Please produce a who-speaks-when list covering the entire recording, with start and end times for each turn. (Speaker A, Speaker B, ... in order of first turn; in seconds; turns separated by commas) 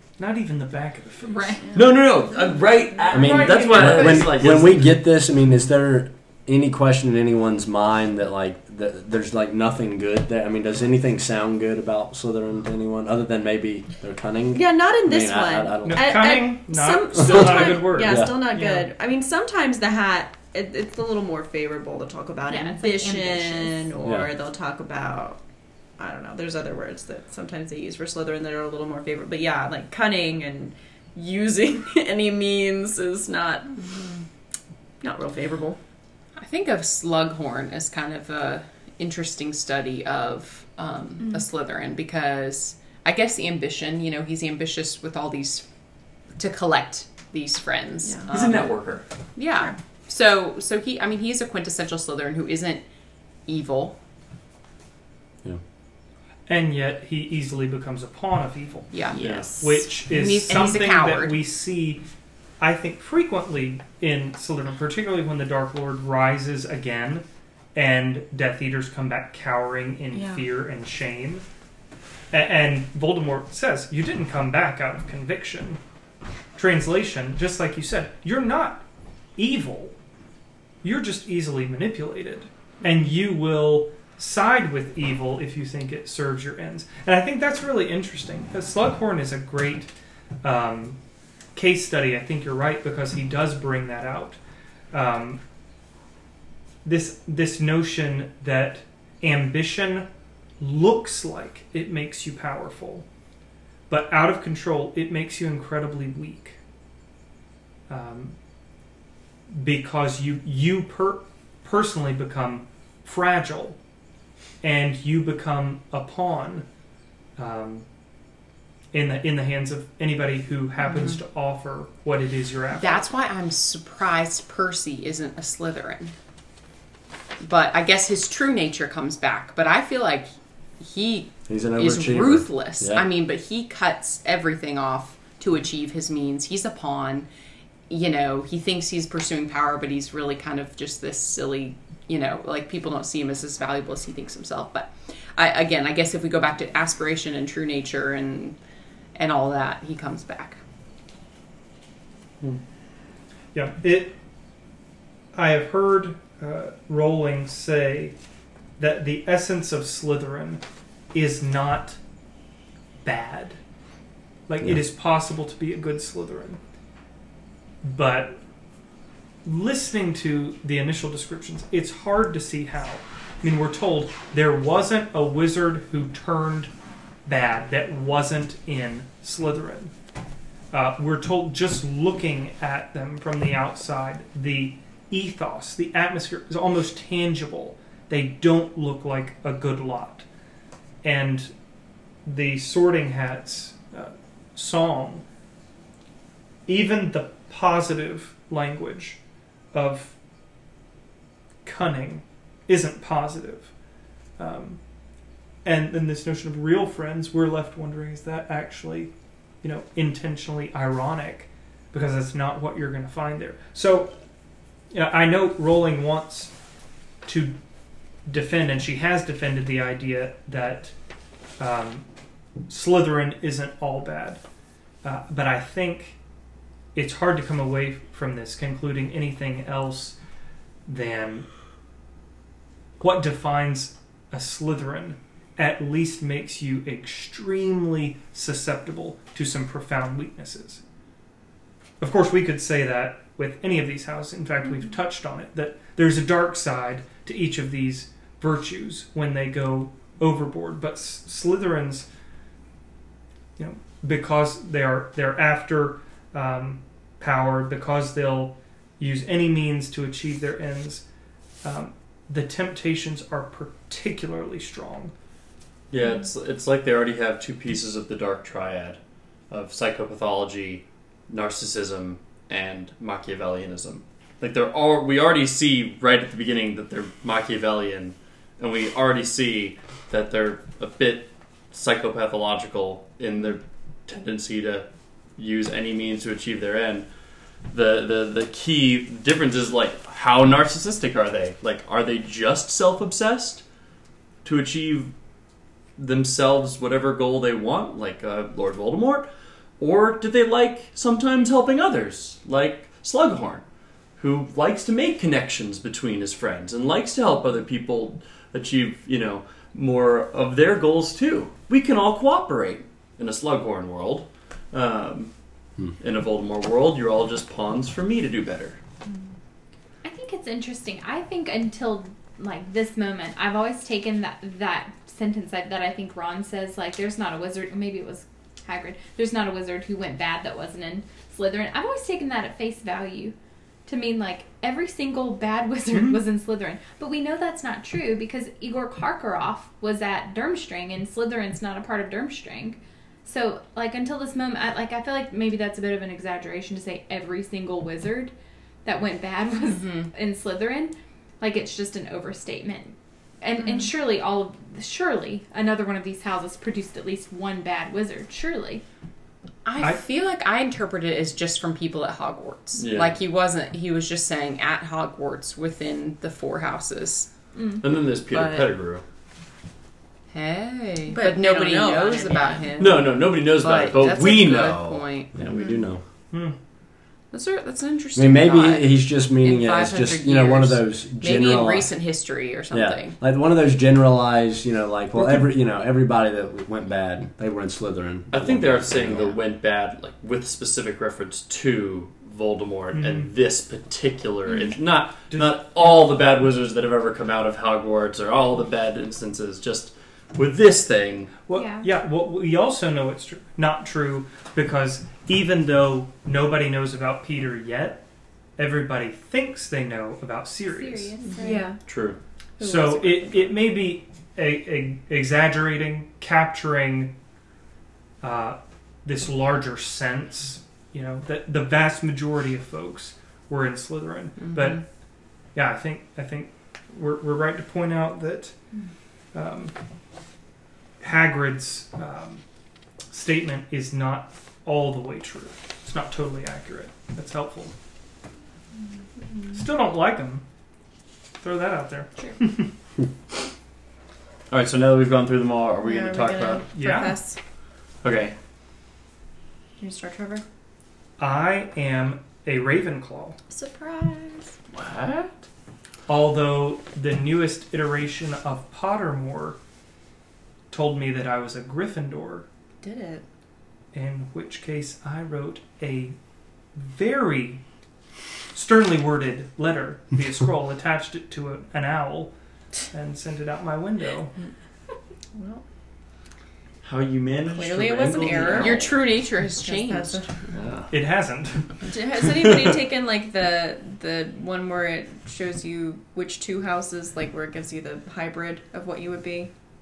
Speaker A: 0.2-1.6, Speaker B: 1.3-1.6, Speaker C: 1.7-5.0, Speaker D: 3.1-16.3, Speaker A: 3.1-4.3, Speaker E: 14.5-25.4, Speaker A: 15.8-18.9, Speaker D: 17.1-18.5, Speaker B: 22.5-23.8, Speaker D: 24.0-24.3, Speaker E: 26.0-33.9, Speaker E: 35.0-35.8, Speaker F: 36.4-45.7, Speaker F: 46.2-52.9, Speaker E: 48.0-48.3, Speaker C: 48.3-49.0, Speaker F: 53.5-54.0, Speaker A: 56.5-62.0, Speaker F: 58.9-61.4, Speaker C: 59.1-60.0, Speaker A: 62.6-71.5, Speaker E: 70.1-70.5, Speaker A: 72.3-75.8, Speaker A: 76.6-78.9, Speaker A: 79.4-80.0, Speaker A: 80.8-89.9, Speaker A: 90.4-91.0, Speaker A: 91.5-94.4, Speaker A: 94.9-95.4, Speaker A: 96.8-103.1, Speaker A: 103.9-106.6, Speaker A: 107.9-108.4, Speaker A: 109.5-113.8, Speaker A: 114.6-116.7, Speaker A: 117.4-117.9, Speaker A: 118.9-123.0, Speaker F: 122.8-126.1, Speaker F: 127.4-137.3, Speaker D: 131.5-133.1, Speaker F: 137.9-148.6, Speaker F: 149.2-150.6, Speaker A: 153.5-154.2, Speaker A: 155.3-158.2, Speaker A: 158.8-162.0, Speaker A: 163.0-163.6, Speaker A: 164.5-166.6, Speaker A: 167.8-168.4, Speaker A: 169.4-176.7, Speaker A: 177.2-179.9, Speaker A: 180.7-190.3, Speaker A: 191.0-191.6, Speaker A: 192.2-195.3, Speaker A: 196.7-199.2, Speaker A: 199.7-200.2, Speaker A: 201.6-203.8, Speaker A: 204.4-204.9, Speaker A: 205.6-214.2, Speaker A: 214.9-216.6, Speaker A: 217.2-217.6, Speaker A: 218.2-221.0, Speaker A: 221.6-222.1, Speaker A: 222.7-224.4, Speaker A: 225.0-226.2, Speaker A: 226.9-230.2, Speaker A: 230.9-231.6, Speaker A: 233.0-240.8, Speaker A: 242.0-252.1, Speaker A: 253.6-261.1, Speaker A: 261.6-265.1, Speaker C: 265.9-287.1, Speaker C: 287.7-293.6, Speaker C: 294.4-295.1, Speaker C: 296.0-299.3, Speaker C: 299.8-303.6, Speaker C: 304.2-315.3, Speaker C: 316.0-318.8, Speaker B: 320.0-333.4, Speaker B: 333.9-358.8, Speaker F: 359.6-367.3, Speaker C: 362.8-363.2, Speaker B: 367.6-367.8, Speaker C: 367.8-369.0, Speaker F: 368.3-368.6, Speaker F: 370.3-375.4, Speaker E: 371.1-372.7, Speaker C: 372.8-375.1, Speaker D: 375.4-376.0, Speaker E: 375.5-375.9, Speaker A: 376.3-376.6, Speaker F: 377.3-383.2, Speaker D: 378.2-381.9, Speaker D: 382.7-389.4, Speaker C: 388.3-401.4, Speaker A: 392.9-393.3, Speaker A: 395.3-395.6, Speaker A: 401.5-408.0, Speaker B: 401.5-401.9, Speaker A: 408.6-411.2, Speaker B: 410.7-411.7, Speaker E: 411.4-411.9, Speaker C: 411.9-412.2, Speaker E: 412.6-413.6, Speaker A: 412.6-417.2, Speaker A: 418.2-428.6, Speaker F: 424.4-424.8, Speaker A: 429.3-429.8, Speaker A: 431.0-432.4, Speaker A: 433.1-437.7, Speaker A: 439.5-440.4, Speaker A: 441.4-442.7, Speaker C: 444.5-446.7, Speaker E: 445.8-447.4, Speaker A: 446.7-447.2, Speaker C: 448.0-448.3, Speaker E: 449.8-450.4, Speaker A: 451.2-453.4, Speaker E: 453.5-454.6, Speaker C: 454.7-455.4, Speaker A: 456.1-459.6, Speaker A: 460.7-462.5, Speaker E: 462.8-463.2, Speaker A: 463.9-466.2, Speaker A: 466.7-467.6, Speaker A: 468.5-472.4, Speaker A: 472.9-474.3, Speaker E: 475.4-475.6, Speaker C: 476.8-478.9, Speaker E: 477.5-480.4, Speaker F: 478.6-480.3, Speaker C: 480.5-480.9, Speaker A: 480.9-481.8, Speaker E: 481.8-489.5, Speaker C: 482.4-482.7